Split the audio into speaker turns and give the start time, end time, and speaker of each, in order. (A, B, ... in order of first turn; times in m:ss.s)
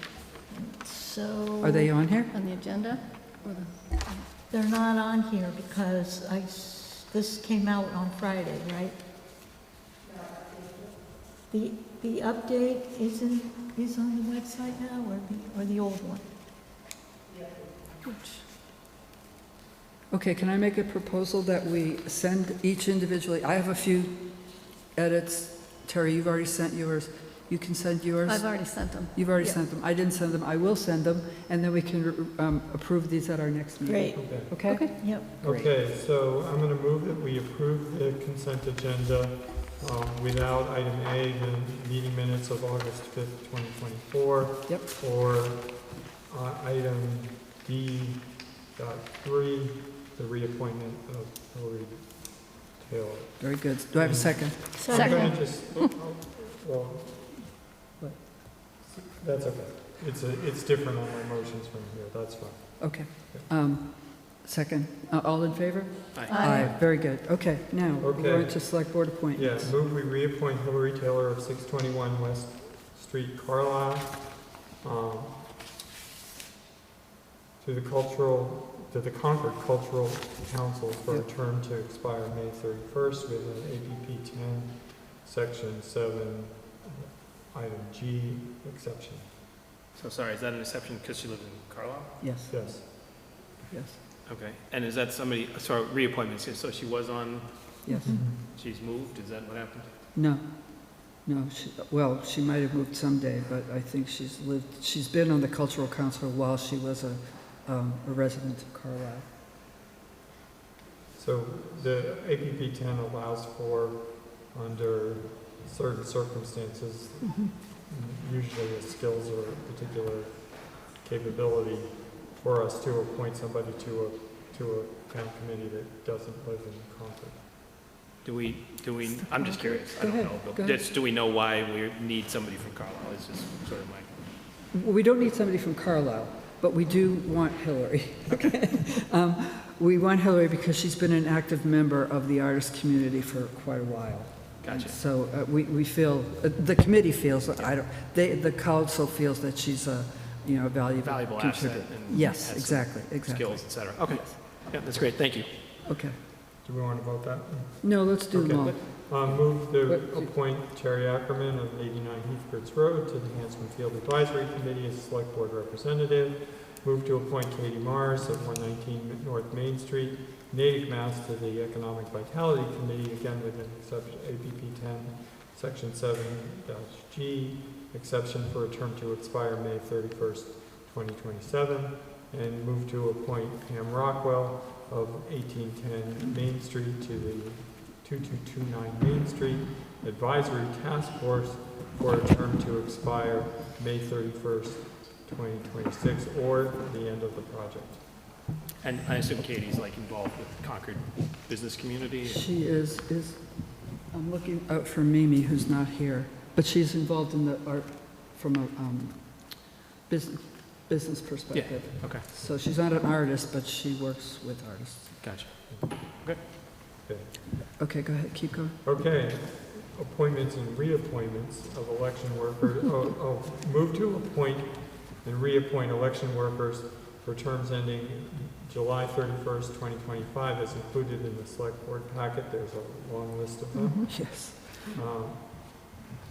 0:00.5-0:01.9 A
0:01.6-0:02.3 B
0:02.3-0:03.8 C
0:04.4-0:09.0 A
0:11.5-0:16.3 A
0:18.0-0:18.4 C
0:20.1-0:35.7 B
0:28.3-0:29.1 C
0:33.9-0:34.2 C
0:34.2-0:34.7 D
0:34.7-0:35.3 A
0:35.2-0:57.6 D
0:53.4-0:55.0 B
0:54.8-0:55.5 A
0:55.0-0:55.9 C
0:58.8-1:03.5 D
1:02.8-1:09.8 B
1:06.1-1:06.8 E
1:06.3-1:06.7 A
1:08.0-1:15.4 D
1:17.6-1:29.3 D
1:30.0-1:32.2 E
1:32.2-1:34.0 B
1:32.5-1:32.9 D
1:34.3-1:38.0 E
1:37.9-1:38.3 B
1:37.9-1:38.2 A
1:38.0-1:38.4 D
1:38.5-1:39.9 E
1:40.2-1:49.3 B
1:51.1-2:07.4 D
2:08.2-2:14.1 E
2:09.2-2:10.8 B
2:14.7-2:34.4 B
2:24.6-2:25.0 E
2:27.6-2:27.8 E
2:31.0-2:35.5 E
2:35.9-2:36.2 B
2:36.6-3:18.1 D
2:37.8-2:40.3 B
2:38.6-2:39.4 E
3:18.8-3:22.5 E
3:22.2-3:35.3 B
3:31.5-3:32.2 E
3:35.2-3:36.4 E
3:35.7-3:36.0 D
3:37.0-3:37.4 D
3:37.8-3:38.8 B
3:38.8-3:55.9 D
3:53.8-3:54.2 C
3:54.1-3:54.9 B